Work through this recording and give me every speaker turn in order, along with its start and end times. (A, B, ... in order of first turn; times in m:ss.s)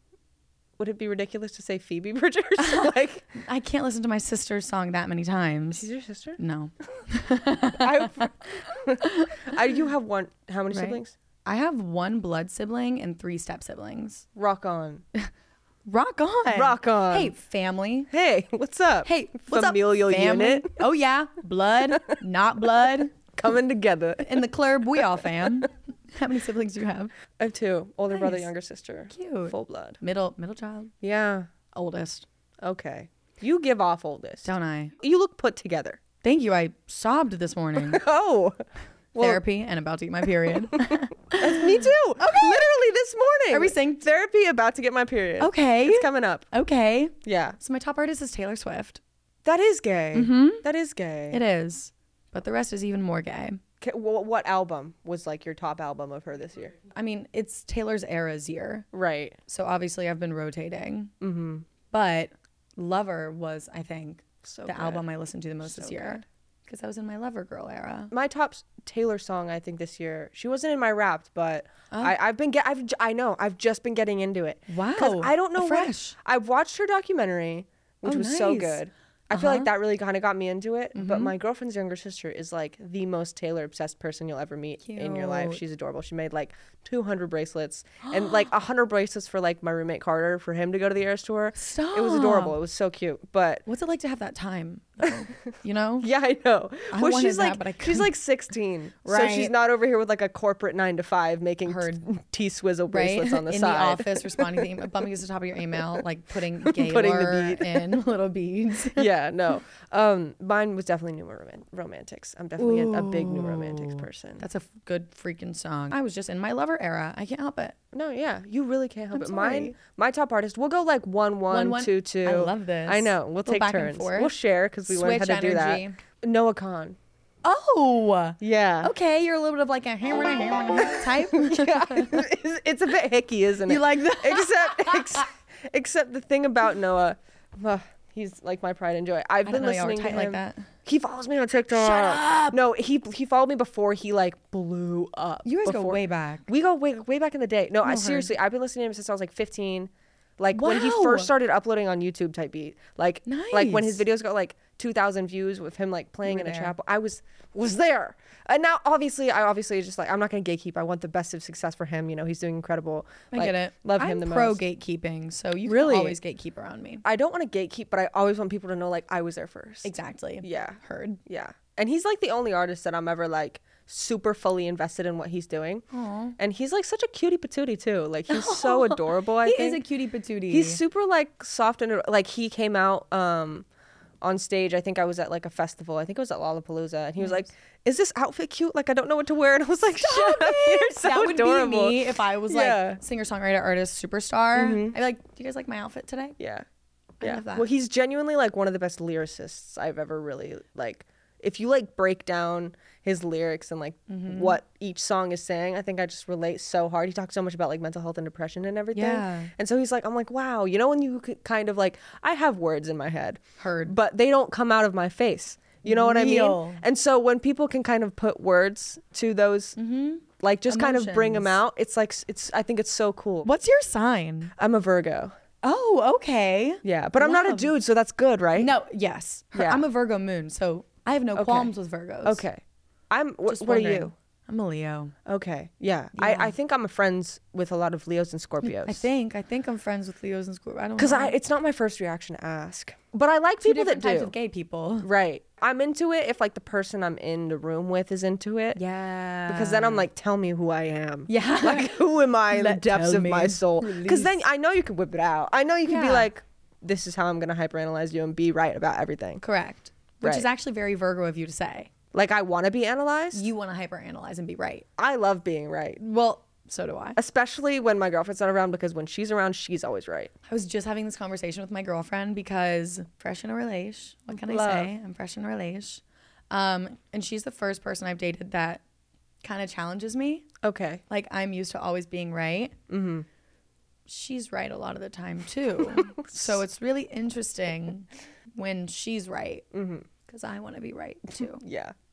0:00.8-0:03.2 A
0:02.6-0:05.9 B
0:05.7-0:06.4 A
0:06.4-0:08.3 B
0:07.7-0:11.1 A
0:09.0-0:09.5 B
0:10.7-0:14.2 B
0:14.3-0:15.0 A
0:15.9-0:18.1 B
0:16.5-0:17.3 A
0:18.1-0:20.8 A
0:19.0-0:23.2 B
0:23.3-0:24.5 A
0:24.2-0:27.1 B
0:27.4-0:30.0 A
0:28.1-0:28.5 B
0:29.1-0:30.9 B
0:31.0-0:31.5 A
0:31.7-0:32.2 B
0:32.6-0:36.0 A
0:34.4-0:34.9 B
0:36.2-0:38.0 B
0:37.8-0:38.6 A
0:39.1-0:39.4 A
0:39.2-0:42.7 B
0:40.6-0:46.5 A
0:43.5-0:44.0 B
0:45.4-0:49.0 B
0:47.2-0:47.6 A
0:49.4-0:51.4 A
0:50.1-0:50.6 B
0:51.3-0:53.6 B
0:53.8-0:56.7 A
0:56.9-0:58.8 B
0:58.9-0:59.4 A
0:59.5-1:01.1 B
1:01.2-1:01.6 A
1:01.9-1:08.1 B
1:04.4-1:05.0 A
1:05.6-1:06.2 A
1:08.1-1:33.6 A
1:11.9-1:12.2 B
1:14.7-1:16.2 B
1:18.0-1:19.7 B
1:20.9-1:21.3 B
1:24.8-1:25.6 B
1:31.5-1:32.6 B
1:33.6-1:36.1 B
1:36.0-1:44.9 A
1:36.9-1:38.2 B
1:39.0-1:39.5 B
1:41.6-1:42.0 B
1:42.9-1:49.1 B
1:46.6-1:48.0 A
1:48.9-1:54.4 A
1:52.6-1:57.8 B
1:57.9-2:07.0 A
1:59.1-1:59.7 B
2:01.5-2:06.0 B
2:07.4-2:12.2 B
2:08.4-2:08.9 A
2:10.8-2:44.6 A
2:13.6-2:15.3 B
2:19.4-2:20.7 B
2:21.7-2:22.6 B
2:25.4-2:26.5 B
2:27.8-2:28.3 B
2:30.5-2:31.3 B
2:33.2-2:34.0 B
2:36.2-2:36.7 B
2:43.3-2:47.0 B
2:45.6-2:46.2 A
2:47.0-2:55.8 A
2:49.8-2:51.2 B
2:55.9-2:56.4 B
2:56.4-2:59.8 A
2:58.3-3:00.8 B
3:00.5-3:03.6 A
3:04.2-3:13.0 A
3:07.2-3:07.5 B
3:10.0-3:16.4 B
3:14.5-3:15.0 A
3:16.4-3:16.6 A
3:17.2-3:17.7 B
3:17.2-3:39.8 A
3:24.1-3:24.6 B
3:28.9-3:29.5 B
3:33.6-3:33.9 B
3:35.8-3:36.8 B
3:39.8-3:41.6 B
3:40.4-3:43.5 A
3:43.4-3:44.5 B
3:44.6-3:45.3 A
3:45.6-3:47.7 B
3:46.8-3:48.7 A
3:48.6-3:52.4 B
3:49.5-3:49.8 A
3:51.3-3:54.1 A
3:53.5-3:55.1 B
3:55.2-3:59.1 A
3:56.2-3:56.5 B
3:58.6-4:01.4 B
4:01.0-4:04.3 A
4:03.6-4:05.1 B
4:05.0-4:08.8 A
4:08.7-4:10.1 B
4:09.5-4:19.4 A
4:11.3-4:14.4 B
4:15.8-4:16.3 B
4:19.4-4:21.9 B
4:20.2-4:20.5 A
4:22.1-4:23.5 A
4:23.3-4:24.8 B
4:25.0-4:26.0 A
4:26.0-4:27.2 B
4:27.2-4:30.3 A
4:30.5-4:38.8 B
4:34.3-4:34.9 A
4:39.4-4:40.5 B
4:40.6-4:41.0 A
4:41.1-4:42.7 B
4:42.9-4:43.2 A
4:44.1-4:49.6 B
4:45.8-4:46.6 A
4:49.7-4:50.1 A
4:50.3-4:51.6 B
4:51.4-4:51.9 A